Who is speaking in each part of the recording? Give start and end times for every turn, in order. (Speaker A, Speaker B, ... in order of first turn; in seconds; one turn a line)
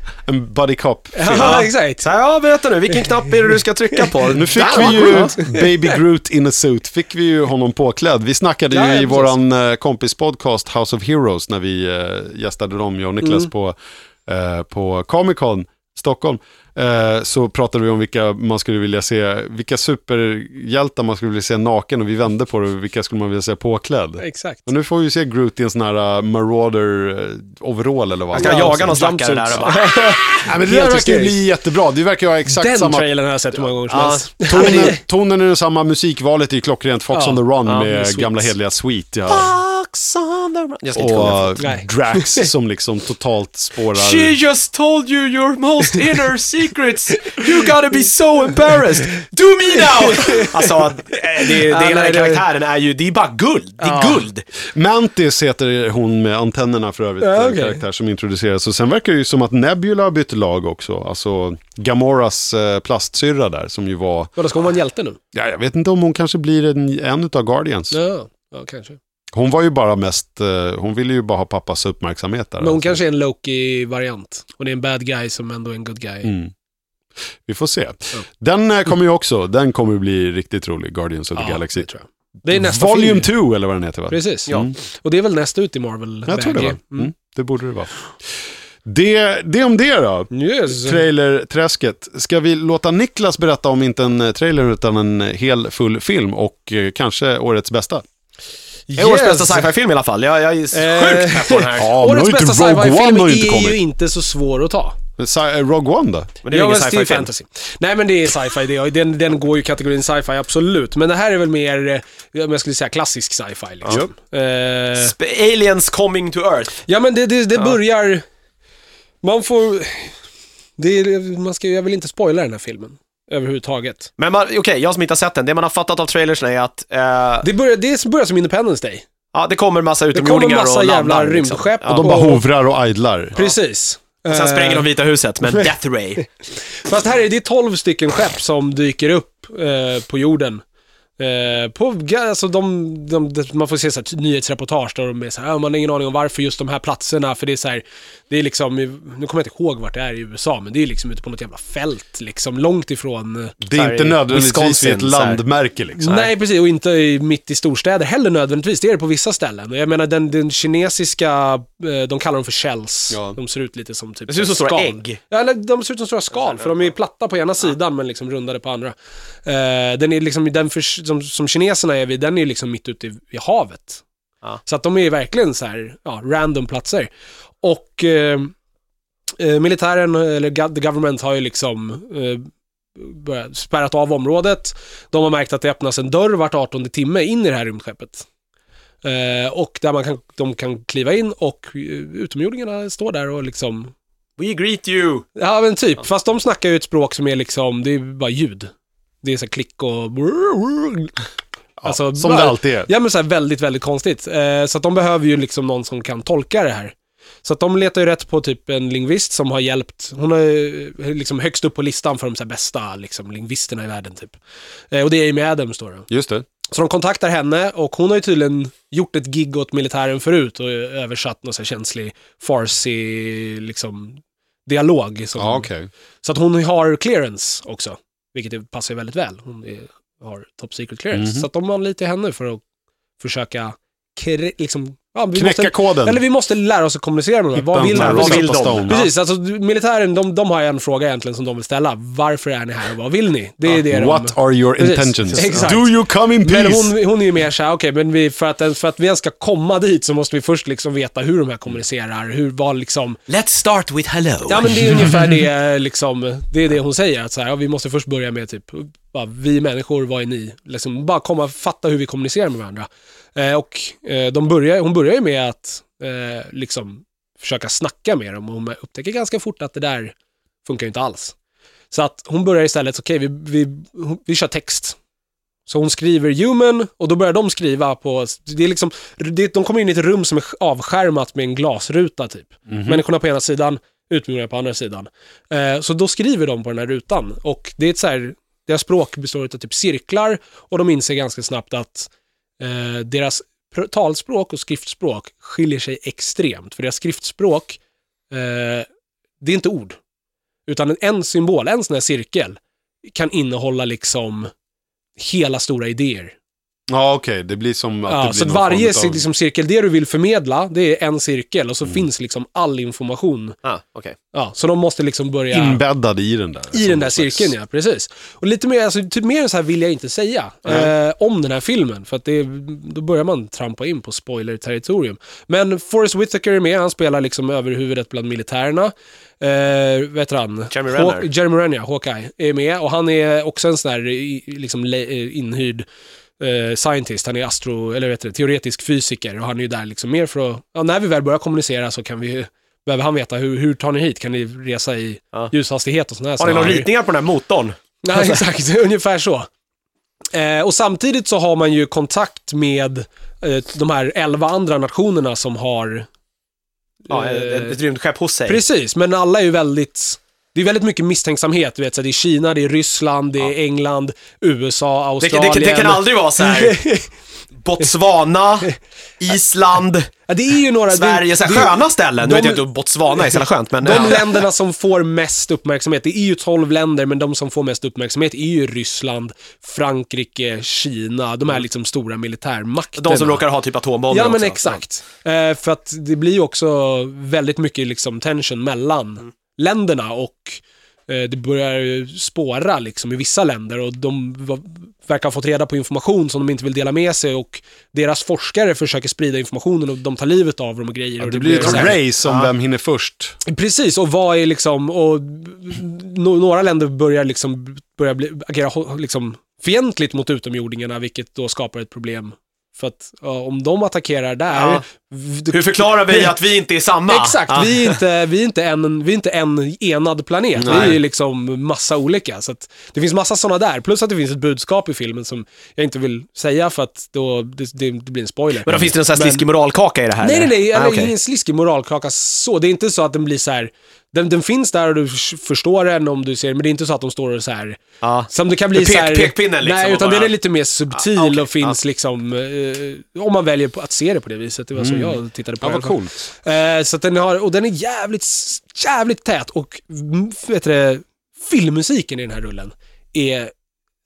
Speaker A: 0.2-1.6
Speaker B: 1.1-2.1
Speaker C: 1.3-5.3
Speaker B: 4.2-5.9
Speaker A: 4.3-29.0
Speaker B: 8.7-9.3
Speaker B: 13.2-13.5
Speaker B: 24.2-24.7
Speaker C: 28.3-29.9
Speaker B: 28.4-31.4
Speaker A: 30.3-33.7
Speaker B: 32.5-35.0
Speaker C: 33.9-35.0
Speaker A: 34.4-39.5
Speaker B: 37.1-38.4
Speaker C: 37.6-38.1
Speaker C: 39.3-41.6
Speaker A: 40.9-44.4
Speaker B: 41.6-42.5
Speaker C: 43.9-54.4
Speaker B: 49.8-52.4
Speaker B: 53.8-54.3
Speaker A: 54.7-64.3
Speaker B: 57.2-57.8
Speaker B: 64.3-65.2
Speaker A: 65.3-68.0
Speaker B: 67.9-69.0
Speaker A: 69.3-73.0
Speaker B: 72.6-76.3
Speaker A: 76.2-76.5
Speaker A: 77.4-81.9
Speaker B: 81.3-83.3
Speaker A: 82.5-84.8
Speaker B: 84.1-87.1
Speaker A: 86.3-87.9
Speaker A: 88.8-98.0
Speaker B: 90.3-91.0
Speaker B: 98.9-99.7
Speaker C: 99.0-101.9
Speaker B: 100.7-105.0
Speaker A: 101.8-103.8
Speaker A: 105.2-106.3
Speaker C: 106.4-107.3
Speaker B: 106.5-115.1
Speaker C: 114.9-116.8
Speaker B: 116.8-118.2
Speaker B: 119.2-120.2
Speaker B: 120.8-124.1
Speaker C: 124.2-127.5
Speaker B: 127.4-129.0
Speaker C: 129.3-132.1
Speaker B: 130.1-132.4
Speaker A: 131.9-133.3
Speaker B: 133.3-134.9
Speaker C: 134.3-136.2
Speaker B: 136.8-140.6
Speaker B: 141.2-153.5
Speaker A: 153.6-156.1
Speaker C: 153.7-155.4
Speaker B: 156.0-174.0
Speaker A: 163.1-163.4
Speaker C: 164.3-165.2
Speaker C: 166.3-166.9
Speaker B: 174.7-177.1
Speaker B: 177.6-178.5
Speaker B: 179.4-188.2
Speaker B: 189.0-193.9
Speaker C: 194.4-195.2
Speaker B: 195.3-198.7
Speaker B: 199.2-201.1
Speaker A: 201.8-202.9
Speaker B: 201.8-214.4
Speaker B: 214.9-216.1
Speaker A: 216.1-216.4
Speaker B: 216.7-225.7
Speaker A: 225.4-225.9
Speaker B: 226.2-232.6
Speaker A: 231.1-231.5
Speaker B: 233.2-253.2
Speaker A: 235.3-236.2
Speaker A: 237.5-239.1
Speaker C: 237.9-239.1
Speaker A: 243.7-246.9
Speaker C: 253.3-255.1
Speaker B: 254.5-271.3
Speaker B: 271.9-275.0
Speaker B: 275.7-297.8
Speaker A: 282.7-283.0
Speaker B: 298.3-298.9
Speaker B: 299.4-300.0
Speaker B: 300.7-304.5
Speaker B: 305.2-306.3
Speaker A: 306.9-309.2
Speaker B: 308.1-313.6
Speaker C: 313.6-314.1
Speaker B: 314.3-315.8
Speaker A: 315.5-317.5
Speaker B: 316.7-335.9
Speaker C: 330.7-331.3
Speaker B: 336.4-346.9
Speaker C: 346.4-348.4
Speaker B: 348.0-349.5
Speaker B: 350.3-356.1
Speaker B: 357.1-357.8
Speaker C: 357.1-358.6
Speaker B: 358.4-367.1
Speaker C: 365.2-366.8
Speaker C: 367.6-370.1
Speaker B: 370.3-383.4
Speaker C: 370.9-374.4
Speaker C: 382.9-384.8
Speaker B: 384.1-402.0
Speaker A: 401.2-403.4
Speaker C: 401.6-402.5
Speaker B: 403.4-416.4
Speaker C: 414.5-414.8
Speaker C: 415.5-418.0
Speaker B: 417.1-429.5
Speaker A: 420.6-421.0
Speaker C: 420.6-421.0
Speaker C: 428.6-431.1
Speaker B: 430.2-453.5
Speaker C: 438.0-440.4
Speaker C: 440.9-441.8
Speaker A: 444.8-446.3